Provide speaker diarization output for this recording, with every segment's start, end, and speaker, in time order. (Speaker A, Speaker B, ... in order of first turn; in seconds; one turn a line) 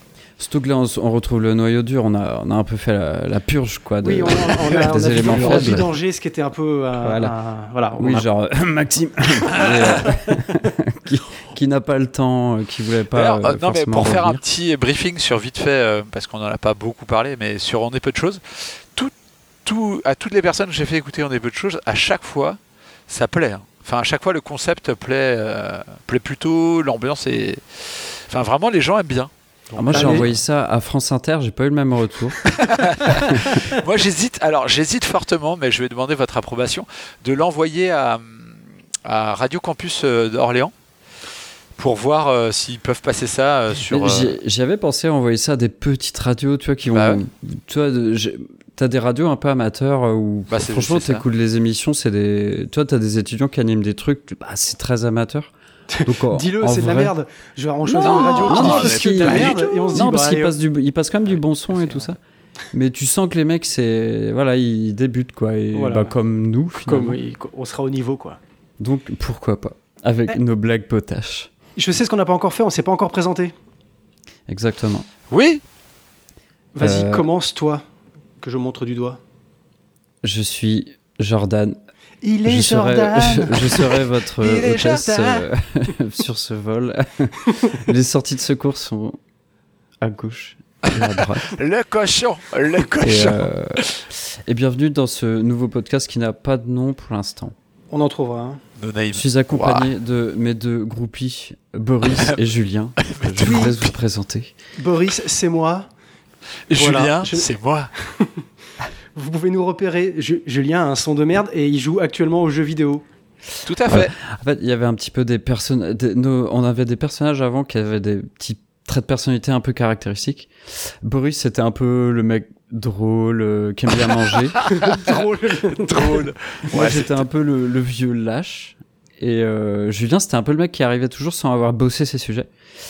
Speaker A: 0.4-5.9
Speaker B: 4.0-8.3
Speaker C: 5.1-5.9
Speaker A: 7.0-7.4
Speaker A: 8.0-14.4
Speaker C: 9.6-9.8
Speaker C: 13.1-19.1
Speaker C: 19.6-30.4
Speaker A: 29.8-32.5
Speaker B: 29.9-30.3
Speaker C: 32.5-40.7
Speaker A: 33.1-33.6
Speaker C: 41.8-44.4
Speaker A: 43.9-55.5
Speaker C: 46.9-47.2
Speaker C: 50.5-51.2
Speaker B: 55.9-60.6
Speaker A: 56.0-57.1
Speaker A: 57.9-62.2
Speaker C: 58.0-60.0
Speaker C: 61.4-62.1
Speaker A: 62.7-67.2
Speaker B: 65.7-66.1
Speaker B: 66.7-68.4
Speaker A: 68.8-71.5
Speaker B: 71.8-73.5
Speaker A: 74.5-75.1
Speaker C: 75.3-75.6
Speaker B: 76.8-77.8
Speaker A: 76.8-77.3
Speaker B: 78.4-79.2
Speaker A: 80.2-81.8
Speaker B: 82.2-84.0
Speaker A: 82.5-89.2
Speaker C: 84.4-85.4
Speaker A: 90.0-91.6
Speaker C: 90.8-94.0
Speaker A: 93.0-97.5
Speaker B: 97.9-98.6
Speaker C: 98.8-99.9
Speaker A: 99.1-104.5
Speaker C: 102.0-102.4
Speaker C: 103.0-103.9
Speaker B: 103.4-103.7
Speaker B: 104.8-105.9
Speaker C: 106.7-107.9
Speaker B: 106.7-107.5
Speaker B: 108.1-108.4
Speaker B: 109.2-113.0
Speaker C: 113.7-114.1
Speaker A: 113.9-124.7
Speaker C: 124.6-124.9
Speaker B: 124.7-126.3
Speaker C: 125.9-127.2
Speaker A: 126.7-132.5